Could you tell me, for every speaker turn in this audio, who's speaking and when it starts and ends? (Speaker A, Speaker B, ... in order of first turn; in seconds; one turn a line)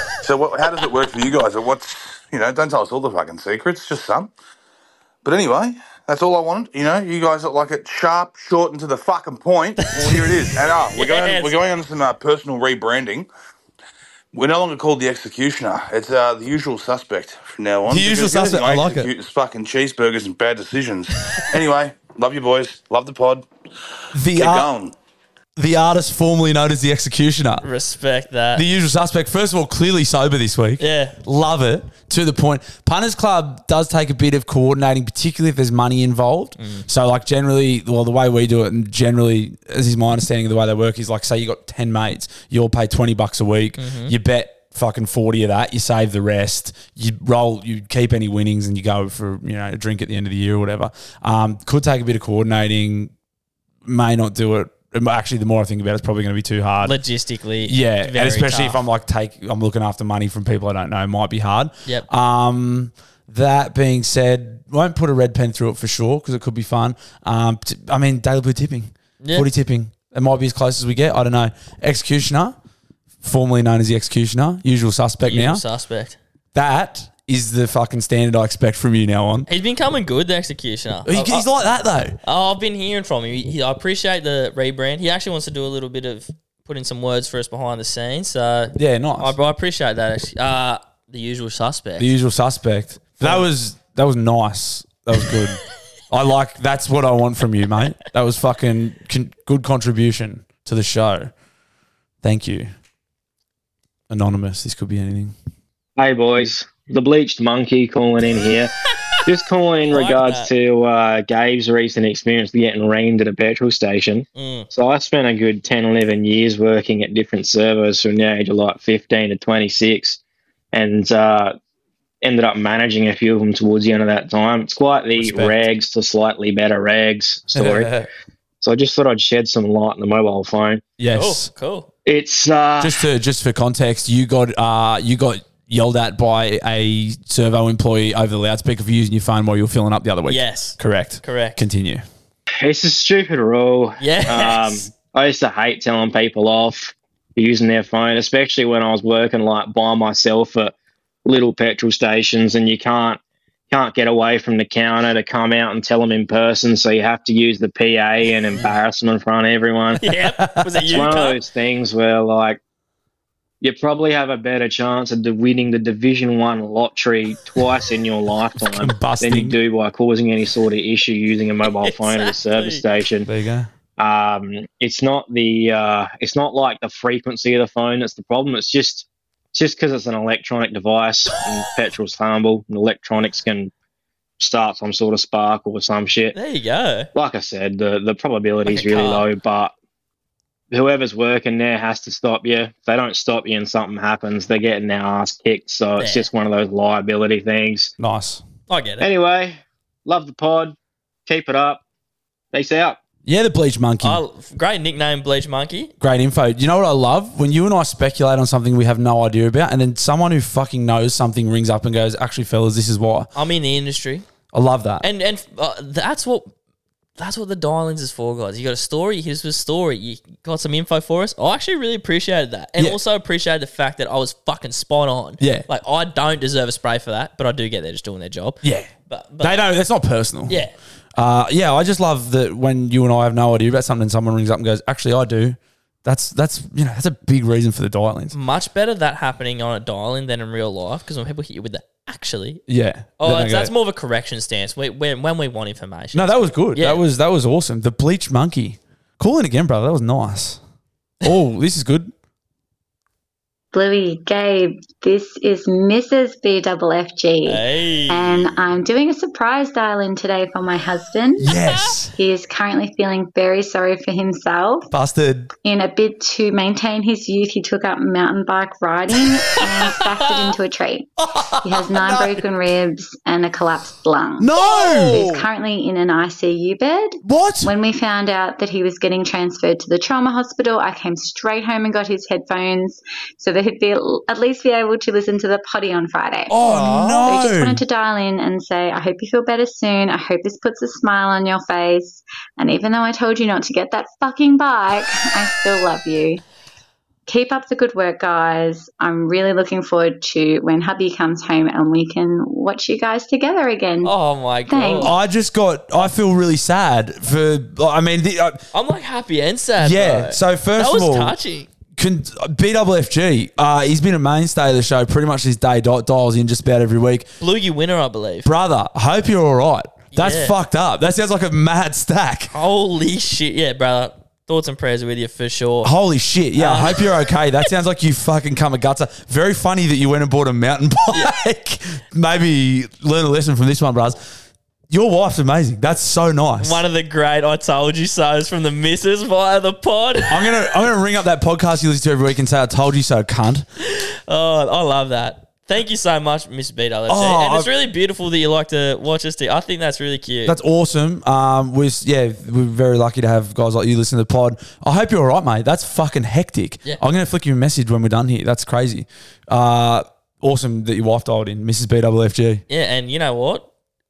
Speaker A: 0.2-4.3
Speaker A: 5.2-13.3
Speaker B: 9.8-11.6
Speaker A: 14.3-23.5
Speaker C: 17.9-19.1
Speaker C: 24.1-24.7
Speaker A: 24.3-24.9
Speaker C: 25.6-27.6
Speaker B: 27.6-28.6
Speaker C: 28.6-53.1
Speaker B: 30.8-31.2
Speaker B: 36.6-36.9
Speaker B: 43.8-44.1
Speaker C: 53.9-57.0
Speaker B: 56.8-58.8
Speaker C: 57.6-72.6
Speaker B: 69.2-69.5
Speaker C: 73.2-75.6
Speaker B: 75.2-76.2
Speaker C: 76.5-79.5
Speaker B: 79.5-81.5
Speaker C: 81.1-82.2
Speaker B: 82.2-92.1
Speaker C: 88.8-89.3
Speaker C: 92.0-101.3
Speaker B: 93.2-93.5
Speaker C: 102.2-102.7
Speaker C: 104.1-105.3
Speaker D: 106.0-108.7
Speaker D: 109.2-120.2
Speaker B: 109.9-110.5
Speaker B: 114.3-114.7
Speaker D: 120.7-121.5
Speaker D: 122.2-127.9
Speaker C: 125.2-125.6
Speaker C: 127.5-128.1
Speaker D: 128.6-130.8
Speaker C: 131.0-131.5
Speaker B: 131.1-131.9
Speaker D: 132.1-133.1
Speaker C: 132.8-142.0
Speaker B: 140.3-141.6
Speaker D: 142.6-150.7
Speaker B: 144.0-144.9
Speaker D: 151.2-153.2
Speaker D: 153.7-160.0
Speaker B: 160.0-161.4
Speaker C: 160.4-161.0
Speaker D: 160.9-162.6
Speaker D: 163.6-173.3
Speaker C: 168.7-169.6
Speaker B: 171.6-172.8
Speaker C: 173.2-173.7
Speaker D: 174.0-183.7
Speaker D: 184.4-186.3
Speaker B: 186.3-187.1
Speaker D: 187.1-189.7
Speaker B: 188.7-189.3
Speaker D: 190.7-197.9
Speaker B: 196.0-196.3
Speaker C: 198.0-198.4
Speaker B: 198.7-199.1
Speaker D: 199.0-200.7
Speaker D: 201.3-201.8
Speaker D: 202.5-203.0
Speaker C: 203.2-204.2
Speaker B: 204.0-205.9
Speaker C: 206.0-213.3
Speaker B: 213.3-214.3
Speaker C: 214.5-215.1
Speaker B: 215.0-216.5
Speaker B: 217.2-229.6
Speaker C: 225.4-225.7
Speaker C: 228.6-228.9
Speaker C: 229.4-230.6
Speaker B: 230.5-230.7
Speaker C: 231.2-238.3
Speaker B: 238.3-242.6
Speaker C: 242.7-243.7
Speaker B: 243.2-247.0
Speaker C: 246.1-250.6
Speaker C: 251.2-252.1
Speaker E: 253.7-261.6
Speaker B: 257.4-258.5
Speaker C: 261.4-262.1
Speaker E: 262.1-264.9
Speaker C: 264.9-265.5
Speaker E: 265.6-296.4
Speaker C: 271.4-272.4
Speaker C: 274.4-275.4
Speaker C: 277.2-277.7
Speaker C: 286.5-287.8
Speaker B: 286.6-287.3
Speaker E: 297.3-304.1
Speaker B: 304.0-305.1
Speaker E: 304.7-305.2
Speaker C: 305.0-308.6
Speaker B: 308.7-311.7
Speaker C: 309.8-311.4
Speaker C: 311.9-317.3
Speaker B: 317.4-318.5
Speaker C: 318.4-322.5
Speaker B: 320.1-320.6
Speaker B: 322.5-325.9
Speaker C: 325.8-334.2
Speaker B: 326.6-327.1
Speaker C: 334.9-336.8
Speaker B: 336.6-340.5
Speaker C: 340.3-343.6
Speaker B: 343.8-350.6
Speaker C: 347.1-347.7
Speaker C: 350.4-362.6
Speaker B: 362.7-363.7